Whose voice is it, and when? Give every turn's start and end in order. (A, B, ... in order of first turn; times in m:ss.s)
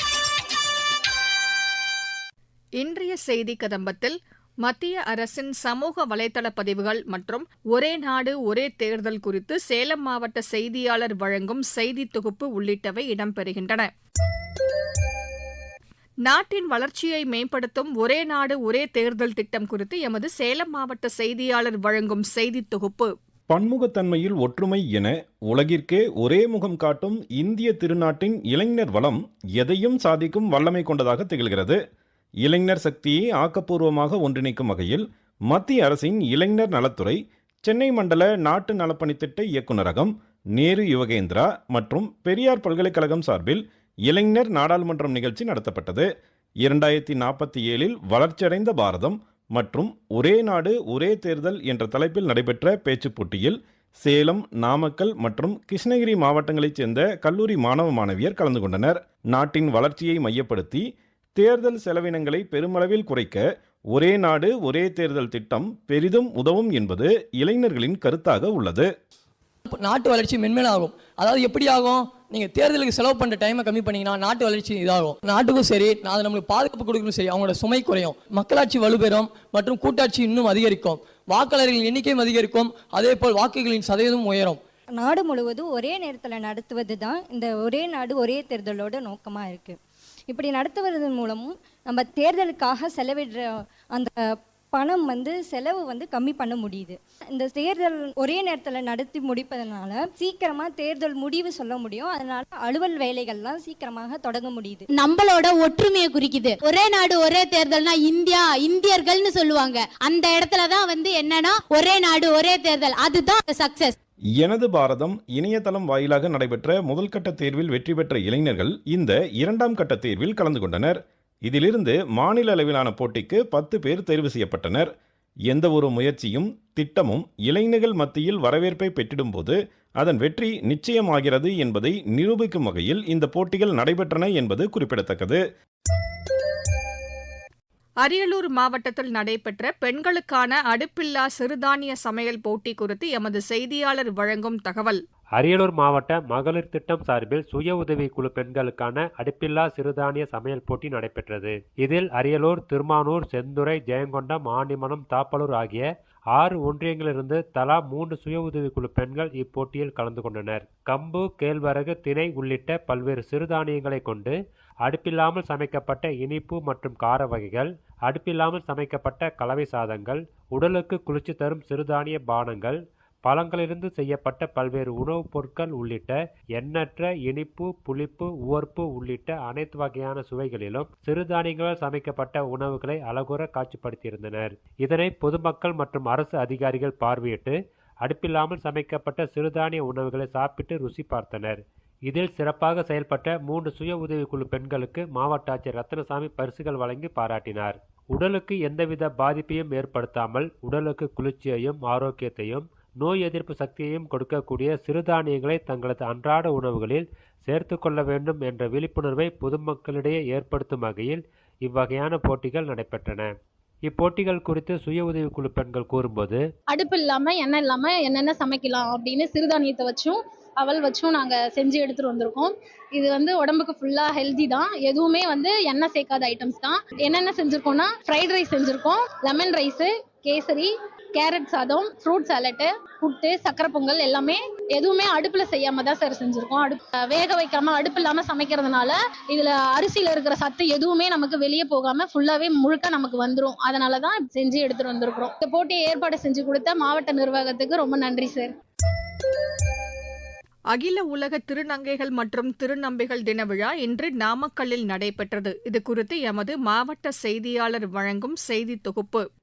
0:02.8-0:13.9 A
0:16.3-0:23.1 A
0:23.5-0:31.8 B
0:32.4-0:46.1 B
0:46.6-1:00.8 B
1:01.4-1:08.9 B
1:09.7-1:24.6 C
1:25.0-1:44.8 D
1:44.9-1:53.9 E
1:54.4-2:04.9 B
2:05.5-2:15.4 B
2:18.0-2:25.0 A
2:25.4-3:33.3 F
3:33.8-3:36.4 F
3:36.7-4:08.5 G
4:10.7-4:19.2 A